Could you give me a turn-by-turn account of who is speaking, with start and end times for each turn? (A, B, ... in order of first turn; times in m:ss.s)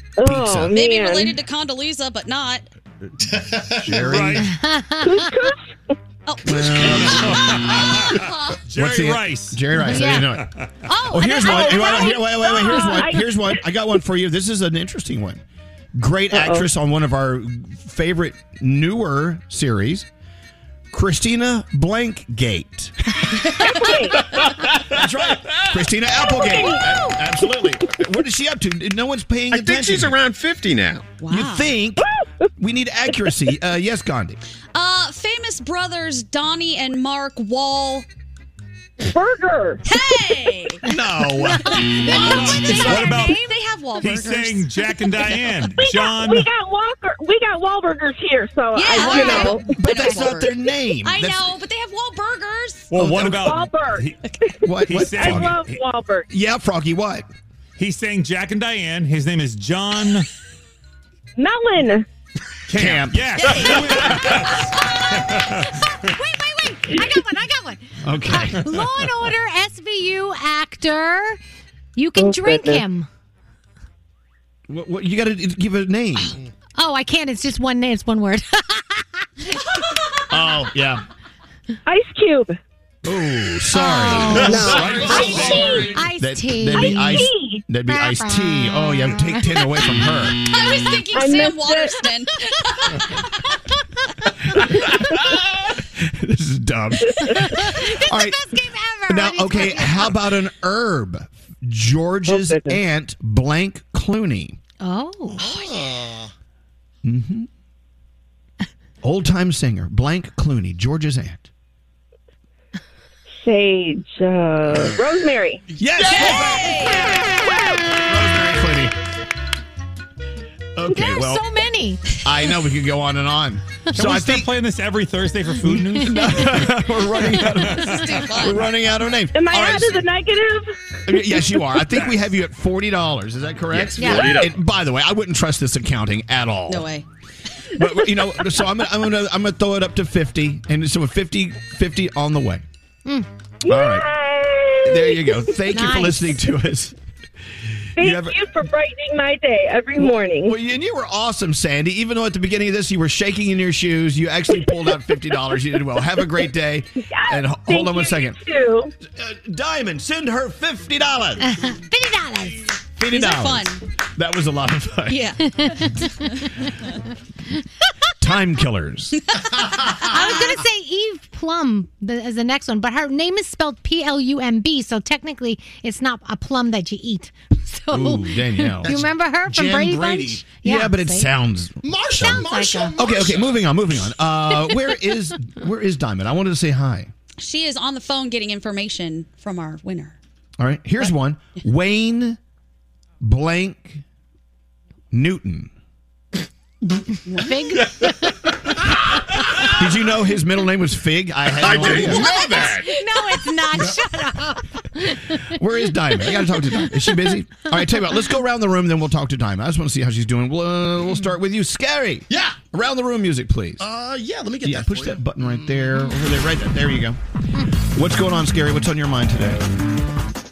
0:00.2-0:01.4 A
0:00.2-0:00.7 B
0:00.7-0:02.6 C
0:03.2-0:04.1 D
0:03.7-0:04.4 B
0:04.0-0:04.5 E
0:04.4-0:05.2 F
0:05.0-0:05.9 A
0:06.3-0:07.2 C
0:06.4-0:08.0 B
0:06.8-0:10.7 E
0:08.7-0:10.5 B
0:09.8-0:10.3 F
0:10.8-0:12.2 F
0:11.1-0:15.4 B
0:11.4-0:13.6 A
0:15.9-0:20.1 B
0:16.3-0:16.6 A
0:20.9-0:23.4 B
0:23.5-0:24.4 A
0:24.9-0:30.2 B
0:26.2-0:27.7 A
0:29.5-0:31.1 G
0:31.2-0:31.7 C
0:31.3-0:32.1 B
0:32.0-0:32.5 A
0:32.6-0:34.4 B
0:34.7-0:38.0 C
0:39.0-0:39.8 A
0:39.8-0:40.8 C
0:40.8-0:42.3 B
0:41.5-0:43.5 F
0:41.8-0:44.6 C
0:42.1-0:43.4 E
0:44.0-0:46.5 E
0:45.6-0:49.7 A
0:48.8-0:52.9 C
0:48.9-0:51.4 B
0:52.9-0:54.2 E
0:53.0-0:53.5 B
0:53.3-0:54.0 A
0:54.6-0:55.6 B
0:54.8-0:55.8 E
0:54.9-0:56.3 A
0:56.3-0:57.3 B
0:57.8-1:00.3 E
1:01.4-1:02.0 A
1:02.7-1:05.7 E
1:02.8-1:04.4 B
1:04.8-1:11.4 F
1:08.0-1:08.6 B
1:12.0-1:13.1 F
1:12.2-1:12.8 A
1:14.7-1:16.4 B
1:16.8-1:19.8 F
1:20.3-1:21.0 B
1:21.8-1:22.6 A
1:23.0-1:30.4 B
1:23.7-1:27.3 F
1:24.4-1:25.6 A
1:24.6-1:25.8 D
1:25.5-1:25.8 E
1:26.8-1:27.6 A
1:27.8-1:29.8 F
1:30.5-1:33.2 C
1:31.1-1:32.0 A
1:34.6-1:34.9 B
1:35.8-1:38.4 B
1:37.2-1:40.2 F
1:39.1-1:44.6 B
1:42.2-1:42.8 A
1:44.8-1:45.5 F
1:45.4-1:46.3 D
1:45.6-1:45.9 C
1:47.0-1:47.5 B
1:49.0-1:51.5 B
1:53.4-1:55.6 A
1:55.8-1:56.8 B
1:56.0-1:57.3 C
1:58.0-1:58.9 B
2:00.8-2:01.4 B
2:00.9-2:02.0 F
2:02.2-2:04.5 B
2:03.9-2:06.7 E
2:05.7-2:10.0 B
2:07.3-2:08.5 E
2:08.0-2:08.7 C
2:09.3-2:11.2 A
2:11.0-2:16.9 B
2:13.7-2:14.6 G
2:14.0-2:14.3 F
2:16.7-2:17.0 C
2:17.7-2:22.6 B
2:23.6-2:25.5 A
2:23.7-2:24.0 B
2:24.8-2:27.0 B
2:25.7-2:26.4 F
2:28.0-2:28.4 B
2:28.0-2:30.5 A
2:30.0-2:38.4 B
2:37.1-2:38.9 A
2:39.0-2:41.5 B
2:41.4-2:42.8 F
2:43.0-2:45.3 B
2:43.1-2:43.8 C
2:45.1-2:45.4 C
2:45.5-2:46.5 F
2:48.2-2:49.2 B
2:49.8-2:50.6 C
2:50.1-3:01.3 F
2:57.9-2:58.9 B
2:58.8-3:00.5 D
3:00.6-3:07.1 B
3:01.8-3:03.5 D
3:02.2-3:03.0 F
3:07.4-3:10.2 C
3:10.6-3:12.4 B
3:13.2-3:14.0 B
3:15.1-3:15.7 B
3:17.3-3:17.8 C
3:17.4-3:19.7 F
3:19.7-3:22.7 B
3:21.5-3:22.9 G
3:21.9-3:25.5 F
3:25.5-3:33.9 B
3:26.3-3:26.8 F
3:32.3-3:32.6 D
3:33.8-3:35.6 D
3:34.6-3:37.2 B
3:37.9-3:39.6 B